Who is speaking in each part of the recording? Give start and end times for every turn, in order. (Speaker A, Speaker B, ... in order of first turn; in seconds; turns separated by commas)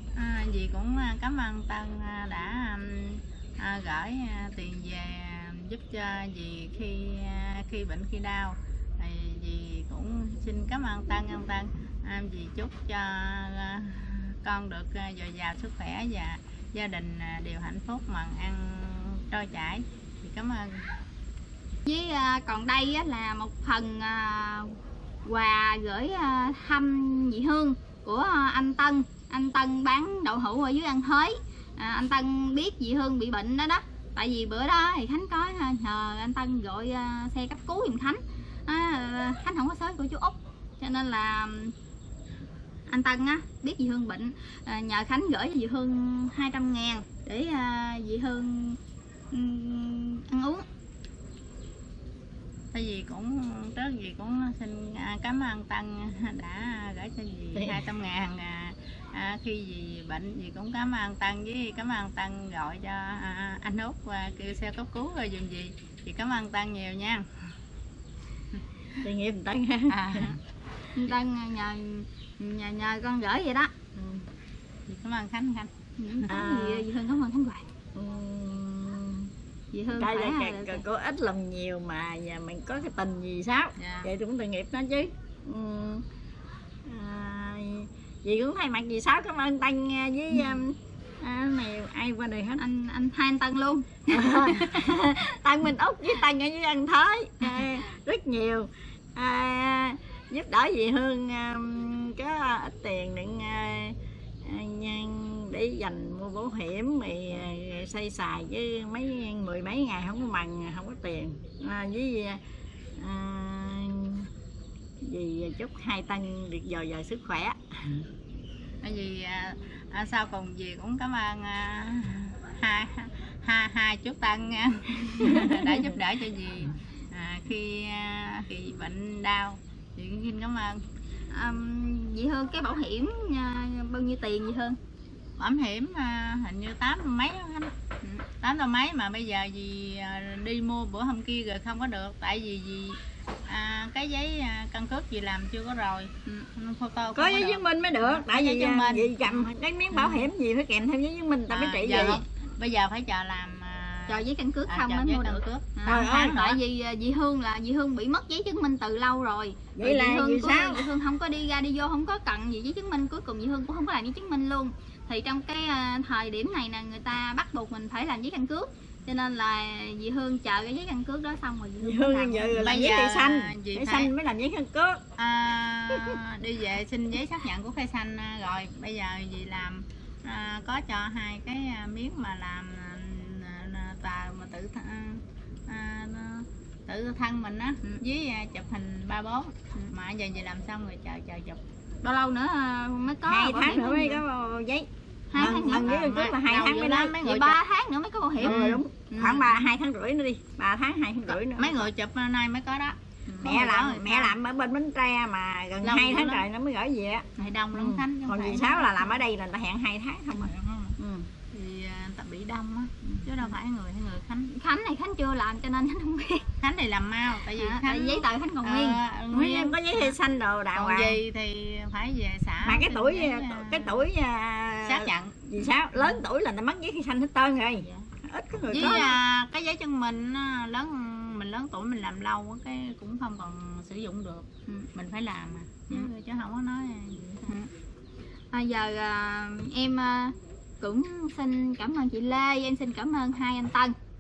Speaker A: 0.1-20.9, Speaker B: 21.9-41.7, Speaker B: 42.9-48.8, Speaker B: 49.3-50.6, Speaker A: 52.7-67.3, Speaker C: 57.6-57.8, Speaker C: 69.0-70.3, Speaker A: 69.9-70.4, Speaker B: 71.0-73.7, Speaker C: 74.0-74.3, Speaker A: 74.9-75.7, Speaker B: 76.0-77.7, Speaker C: 76.3-76.9, Speaker C: 77.9-79.3, Speaker B: 79.7-80.8, Speaker C: 79.9-86.0, Speaker A: 83.8-84.1, Speaker C: 86.8-92.6, Speaker B: 92.6-94.9, Speaker C: 94.1-112.4, Speaker C: 113.0-114.3, Speaker C: 115.0-118.0, Speaker A: 118.8-130.8, Speaker C: 125.2-125.8, Speaker B: 131.3-134.8, Speaker A: 135.4-137.8, Speaker A: 138.3-149.5, Speaker C: 147.2-152.2, Speaker A: 151.5-156.6, Speaker B: 154.1-172.6, Speaker C: 155.9-156.4, Speaker C: 159.8-160.9, Speaker C: 171.8-175.0, Speaker A: 172.6-174.1, Speaker A: 175.2-191.6, Speaker B: 192.0-194.2, Speaker C: 193.3-197.2, Speaker B: 195.3-195.9, Speaker A: 195.4-197.6, Speaker B: 197.2-199.7, Speaker C: 198.4-201.9, Speaker A: 198.4-198.8, Speaker A: 201.3-204.3, Speaker C: 203.4-211.3, Speaker A: 205.8-206.4, Speaker A: 207.4-209.2, Speaker A: 210.3-211.0, Speaker A: 211.5-214.5, Speaker B: 214.5-216.5, Speaker A: 216.6-220.2, Speaker B: 217.6-219.0, Speaker C: 219.3-221.2, Speaker A: 220.7-224.1, Speaker C: 222.6-229.2, Speaker A: 224.8-226.2, Speaker A: 228.7-237.6, Speaker B: 238.5-243.9